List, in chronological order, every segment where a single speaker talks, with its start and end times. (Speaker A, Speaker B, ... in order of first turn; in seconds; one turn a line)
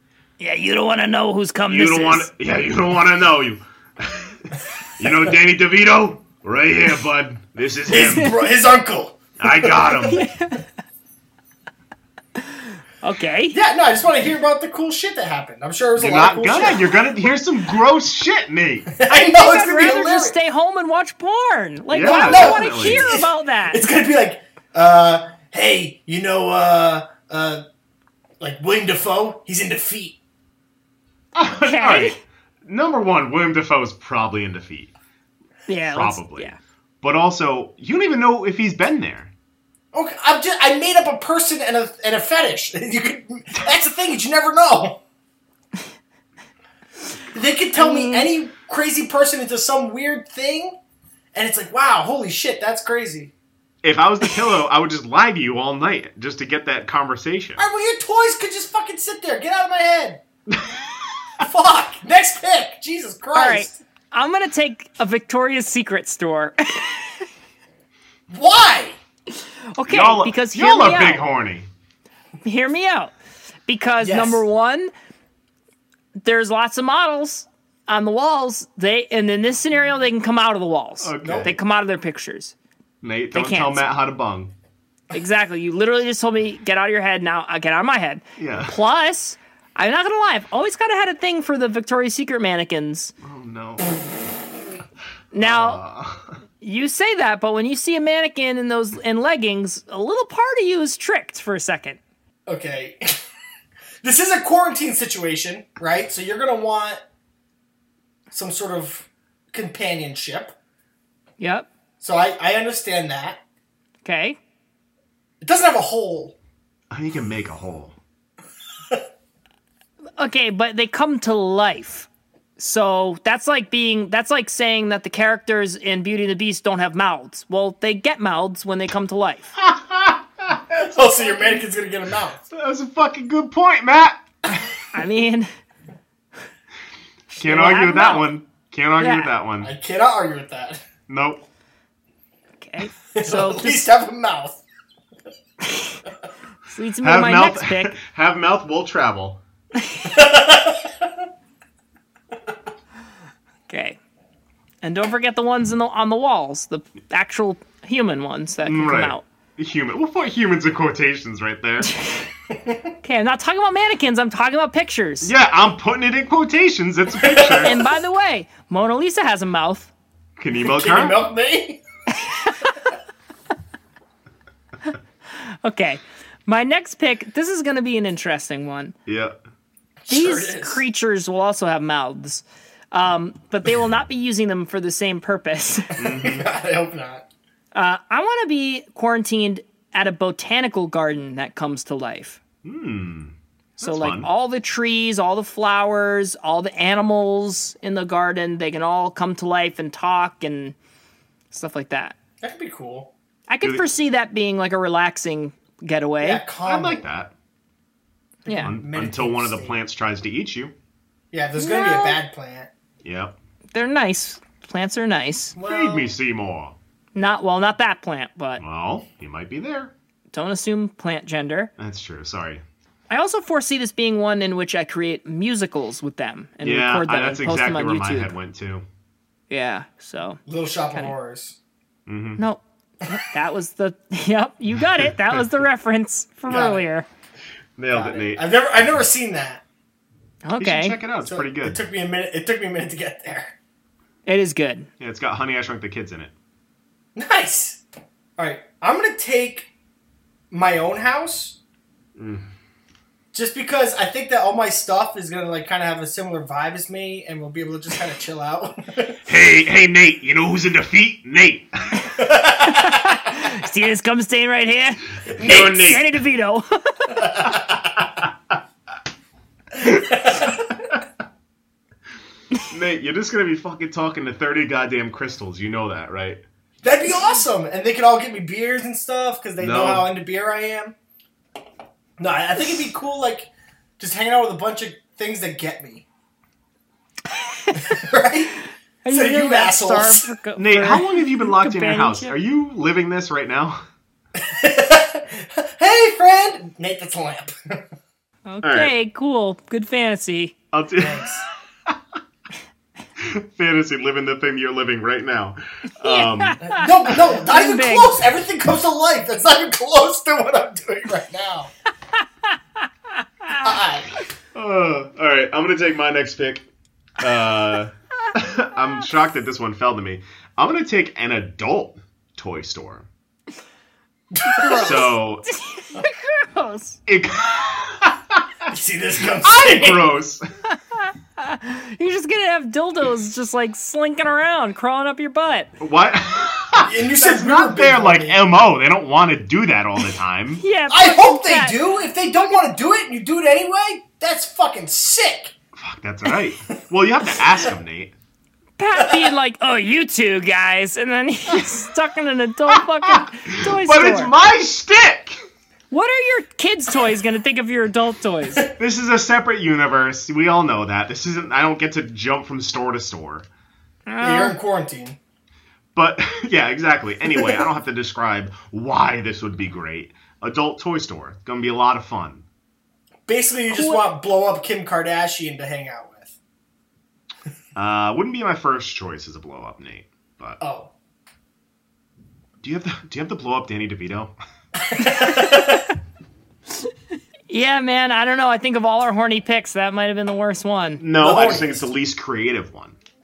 Speaker A: 0.4-2.3
Speaker B: 1.7-8.4
Speaker C: 7.9-10.1
Speaker B: 9.4-10.2
Speaker A: 10.1-10.7
Speaker A: 12.4-13.6
Speaker C: 13.5-16.9
Speaker B: 16.0-18.9
Speaker C: 18.9-20.4
Speaker A: 19.1-23.8
Speaker B: 21.9-23.1
Speaker C: 22.0-27.6
Speaker C: 28.4-30.2
Speaker B: 31.3-34.9
Speaker A: 31.6-32.2
Speaker A: 35.7-36.6
Speaker B: 35.8-39.3
Speaker C: 39.9-45.0
Speaker C: 47.3-50.8
Speaker A: 47.7-48.3
Speaker C: 51.3-53.3
Speaker B: 53.8-57.6
Speaker C: 57.6-60.2
Speaker B: 60.5-60.9
Speaker C: 61.4-63.8
Speaker A: 63.3-67.2
Speaker C: 68.3-69.0
Speaker A: 69.4-71.2
Speaker B: 69.8-71.7
Speaker A: 72.4-73.1
Speaker A: 73.7-74.9
Speaker C: 74.0-74.4
Speaker A: 76.2-82.5
Speaker B: 81.0-81.5
Speaker C: 81.2-81.5
Speaker B: 83.0-84.5
Speaker A: 83.3-83.8
Speaker A: 85.1-93.1
Speaker B: 88.4-88.7
Speaker B: 93.2-94.1
Speaker A: 95.3-95.8
Speaker B: 95.4-96.3
Speaker A: 96.6-102.0
Speaker C: 102.5-103.2
Speaker C: 104.0-107.0
Speaker C: 108.3-110.5
Speaker A: 111.4-111.7
Speaker C: 112.0-113.4
Speaker A: 114.0-114.4
Speaker C: 115.4-116.3
Speaker B: 116.9-118.0
Speaker A: 120.2-129.5
Speaker B: 129.6-131.6
Speaker C: 130.8-132.4
Speaker B: 132.5-134.2
Speaker A: 134.9-135.5
Speaker A: 137.3-138.3
Speaker B: 137.4-139.7
Speaker A: 139.0-139.3
Speaker C: 139.6-140.8
Speaker B: 141.1-141.4
Speaker A: 142.6-143.9
Speaker C: 143.1-144.6
Speaker A: 145.6-146.0
Speaker A: 146.7-147.9
Speaker B: 147.0-149.4
Speaker A: 149.8-150.2
Speaker C: 150.0-151.1
Speaker A: 153.7-154.0
Speaker A: 154.8-159.2
Speaker B: 158.6-161.9
Speaker A: 161.8-162.3
Speaker C: 162.5-162.9
Speaker A: 163.0-165.3
Speaker B: 165.2-167.7
Speaker C: 167.2-167.8
Speaker A: 167.6-169.9
Speaker B: 170.4-171.2
Speaker C: 170.6-171.8
Speaker A: 172.2-172.7
Speaker A: 175.4-178.9
Speaker B: 179.1-179.4
Speaker C: 180.0-180.8
Speaker A: 180.1-186.0
Speaker B: 186.0-186.5
Speaker C: 186.1-187.2
Speaker A: 187.7-192.4
Speaker B: 192.6-194.3
Speaker A: 193.8-200.7
Speaker A: 201.5-202.2
Speaker C: 202.4-203.1
Speaker A: 203.5-206.4
Speaker B: 203.6-203.9
Speaker C: 206.2-207.0
Speaker B: 206.6-207.3
Speaker C: 208.4-209.8
Speaker A: 208.4-208.7
Speaker B: 208.6-210.7
Speaker C: 211.3-212.7
Speaker A: 211.6-212.2
Speaker B: 213.0-213.3
Speaker A: 213.7-215.5
Speaker C: 215.5-216.1
Speaker B: 215.6-216.8
Speaker A: 217.1-218.6
Speaker B: 218.6-219.9
Speaker A: 220.3-221.7
Speaker B: 221.8-222.6
Speaker A: 223.1-228.3
Speaker B: 226.6-228.8
Speaker A: 229.5-230.4
Speaker C: 230.5-231.6
Speaker B: 232.1-232.4
Speaker A: 232.4-237.1
Speaker B: 235.0-235.4
Speaker C: 236.5-236.8
Speaker B: 237.8-238.4
Speaker C: 237.9-239.6
Speaker A: 240.4-241.0
Speaker B: 240.6-241.8
Speaker C: 241.2-243.5
Speaker A: 244.2-244.9
Speaker B: 245.0-246.3
Speaker C: 247.1-247.8
Speaker C: 248.4-249.7
Speaker C: 250.5-251.6
Speaker B: 252.2-252.4
Speaker C: 253.3-259.2
Speaker B: 259.3-262.1
Speaker C: 262.1-263.1
Speaker A: 262.6-267.3
Speaker B: 265.3-266.1
Speaker C: 267.1-268.1
Speaker C: 269.8-270.8
Speaker B: 272.6-276.4
Speaker C: 276.8-280.9
Speaker B: 279.6-280.1
Speaker C: 282.2-286.1
Speaker A: 287.3-288.0
Speaker C: 287.7-288.5
Speaker A: 289.0-292.3
Speaker C: 289.1-290.3
Speaker B: 290.6-293.8
Speaker C: 294.3-297.9
Speaker A: 298.5-300.5
Speaker B: 298.6-298.9
Speaker B: 300.7-301.9
Speaker C: 301.0-301.4
Speaker B: 303.2-306.6
Speaker A: 306.0-308.2
Speaker C: 306.6-311.7
Speaker C: 313.5-314.2
Speaker B: 314.5-316.6
Speaker B: 317.2-323.1
Speaker C: 324.3-325.1
Speaker A: 324.5-327.0
Speaker B: 324.7-325.4
Speaker B: 327.1-328.6
Speaker C: 328.7-330.1
Speaker B: 329.4-330.4
Speaker A: 330.7-335.7
Speaker B: 335.8-340.6
Speaker C: 336.8-338.4
Speaker A: 340.6-341.8
Speaker C: 340.9-345.5
Speaker B: 345.8-348.1
Speaker A: 348.8-354.3
Speaker C: 349.0-349.3
Speaker B: 352.7-355.4
Speaker A: 355.9-358.6
Speaker B: 358.7-363.4
Speaker A: 364.1-364.6
Speaker C: 364.2-365.2
Speaker B: 365.9-372.4
Speaker C: 367.4-367.6
Speaker C: 373.3-376.3
Speaker A: 373.7-374.0
Speaker B: 377.7-380.6
Speaker C: 380.6-380.9
Speaker B: 382.6-384.3
Speaker C: 384.8-385.8
Speaker A: 385.0-385.8
Speaker A: 387.5-391.0
Speaker B: 391.0-393.0
Speaker C: 391.1-391.9